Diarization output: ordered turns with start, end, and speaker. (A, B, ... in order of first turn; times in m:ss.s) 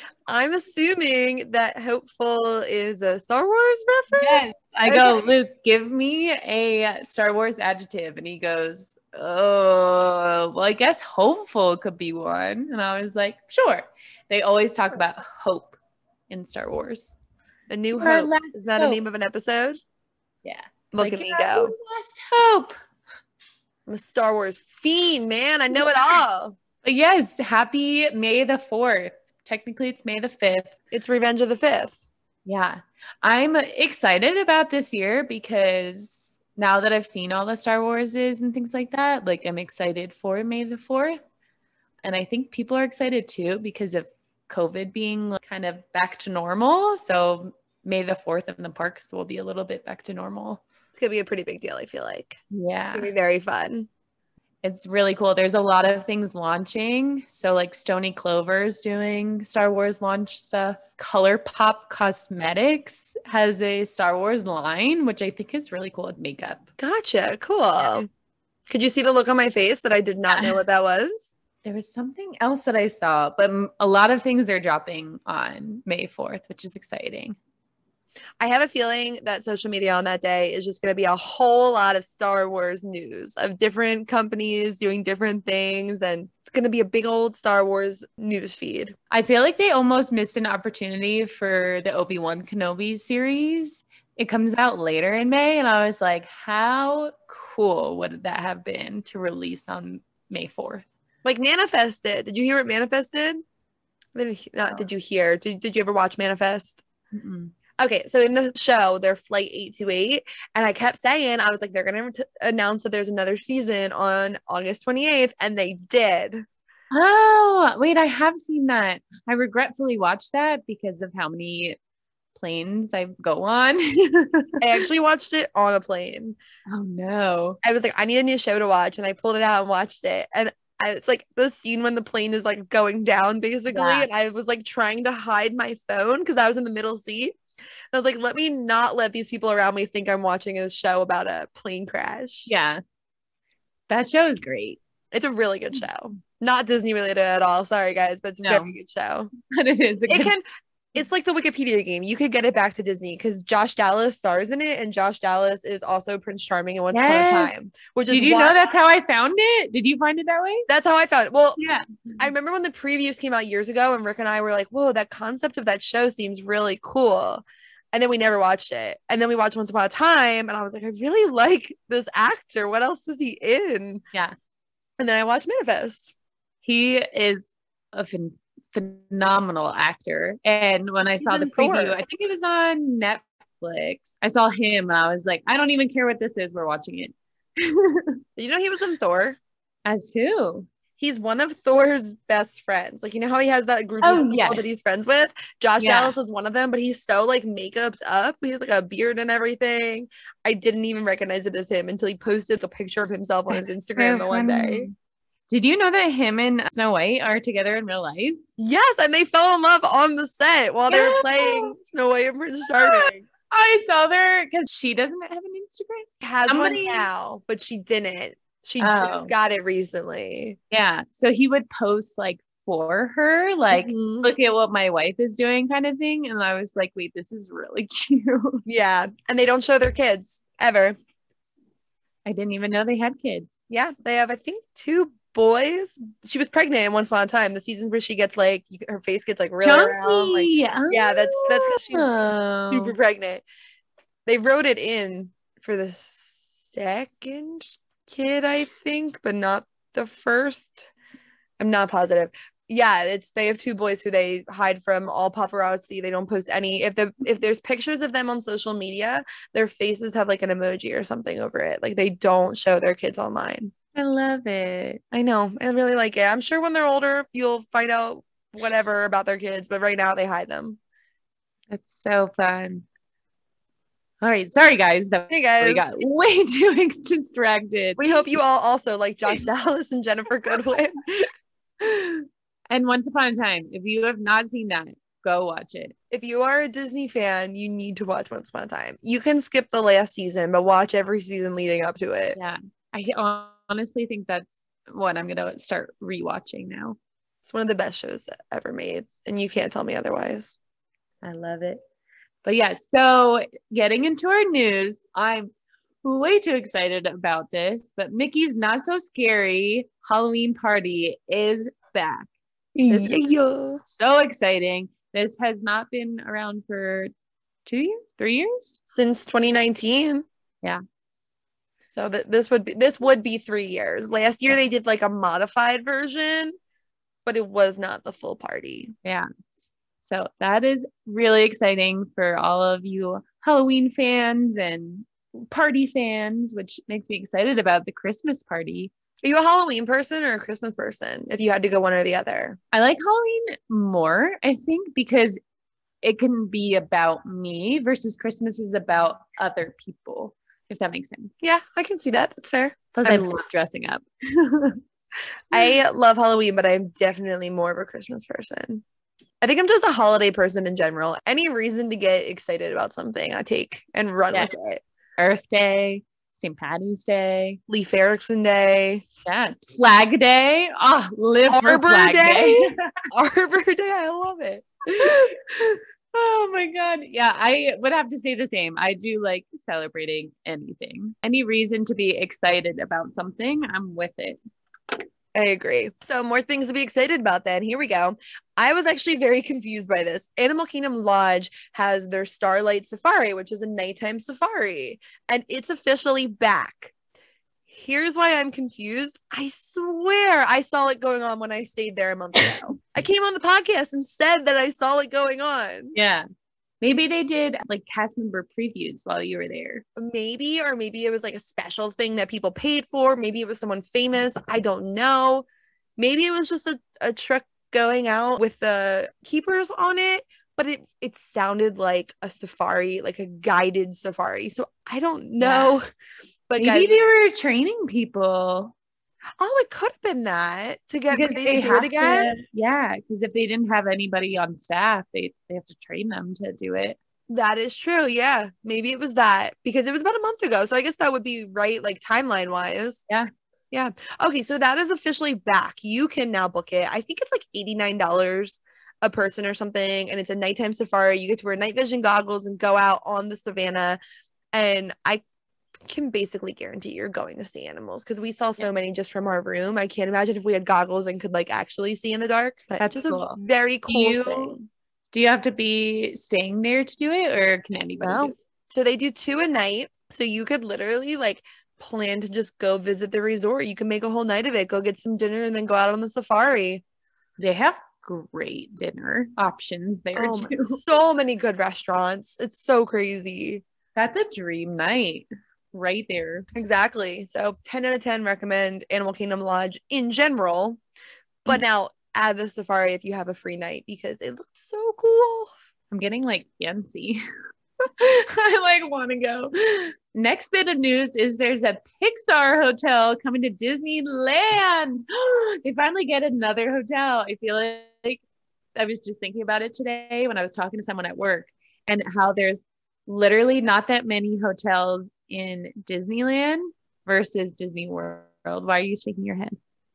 0:00.3-0:05.3 A
0:04.1-0:15.8 B
0:16.3-0:17.1 B
0:17.7-0:19.8 A
0:18.0-0:19.0 B
0:20.4-0:22.8 B
0:20.9-0:21.7 A
0:23.9-0:26.6 A
0:26.8-0:30.7 B
0:30.9-0:32.0 A
0:32.4-0:41.2 B
0:42.0-0:50.6 B
0:50.9-0:52.4 A
0:52.5-0:53.1 B
0:52.9-0:53.9 A
0:54.6-1:06.6 B
1:06.8-1:08.1 A
1:08.7-1:11.3 A
1:11.6-1:17.4 B
1:18.4-1:28.9 A
1:29.1-1:40.9 B
1:41.2-1:43.4 A
1:44.1-1:46.8 A
1:47.1-1:47.5 B
1:47.8-1:56.4 A
1:56.9-2:01.8 B
2:02.3-2:04.8 B
2:04.6-2:06.4 A
2:06.7-2:07.6 B
2:07.6-2:17.4 A
2:13.7-2:14.1 B
2:17.9-2:22.5 A
2:22.5-2:22.8 B
2:23.9-2:24.8 B
2:25.1-2:29.3 A
2:28.4-2:28.7 B
2:29.5-2:30.3 B
2:30.1-2:30.4 A
2:30.9-2:38.5 A
2:36.9-2:37.5 B
2:38.1-2:40.7 B
2:40.7-2:41.6 A
2:41.6-2:42.2 B
2:42.2-2:54.0 A
2:55.0-2:56.1 A
2:56.6-3:08.2 B
3:01.2-3:02.0 A
3:08.4-3:09.4 A
3:09.8-3:10.7 B
3:11.0-3:24.9 A
3:14.0-3:14.6 B
3:15.8-3:16.1 B
3:23.5-3:24.9 B
3:25.5-3:28.4 B
3:28.6-3:33.2 A
3:30.9-3:31.7 B
3:32.7-3:37.1 B
3:36.2-3:40.6 A
3:38.8-3:39.3 B
3:40.7-3:48.6 B
3:43.7-3:44.3 A
3:48.6-3:51.0 A
3:52.2-3:53.5 B
3:53.7-4:02.2 A
3:59.6-4:02.9 B
4:02.7-4:03.4 A
4:04.2-4:10.9 A
4:11.6-4:23.7 A
4:23.9-4:25.0 B
4:25.1-4:30.8 A
4:31.7-4:32.8 B
4:34.2-4:38.0 B
4:35.3-4:36.0 A
4:38.0-4:42.2 A
4:42.7-4:45.9 B
4:46.1-4:52.4 A
4:52.3-4:57.0 B
4:57.4-5:00.6 A
5:01.2-5:01.8 B
5:02.4-5:05.5 B
5:06.0-5:12.3 B
5:12.7-5:13.8 A
5:12.9-5:13.2 B
5:13.9-5:17.1 B
5:17.6-5:18.8 B
5:18.9-5:20.2 A
5:21.9-5:26.6 A
5:27.2-5:28.9 A
5:30.0-5:38.9 B
5:39.2-5:42.6 A
5:42.7-5:45.4 B
5:46.0-5:51.3 B
5:51.4-5:53.2 A
5:52.9-5:54.8 B
5:55.5-5:58.8 A
5:59.4-6:04.8 A
6:05.2-6:07.6 B
6:07.7-6:09.0 A
6:09.2-6:12.7 B
6:11.5-6:15.8 A
6:15.0-6:15.3 B
6:16.1-6:24.4 B
6:25.3-6:36.9 A
6:37.7-6:45.9 A
6:45.9-6:46.2 B
6:46.8-6:49.8 B
6:50.0-6:55.4 A
6:56.0-7:05.8 A
7:05.4-7:05.8 B
7:06.5-7:07.0 A
7:06.6-7:08.7 B
7:09.4-7:12.3 A
7:11.1-7:17.0 B
7:17.3-7:23.0 A
7:23.7-7:34.0 A
7:34.5-7:35.2 A
7:35.8-7:44.6 A
7:42.8-7:44.5 B
7:45.1-7:48.3 B
7:48.0-7:56.8 A
7:57.4-8:00.8 B
8:00.1-8:03.6 A
8:04.0-8:06.5 B
8:06.5-8:10.8 A
8:11.4-8:15.5 A
8:15.9-8:17.2 B
8:18.0-8:28.2 B
8:28.7-8:39.6 B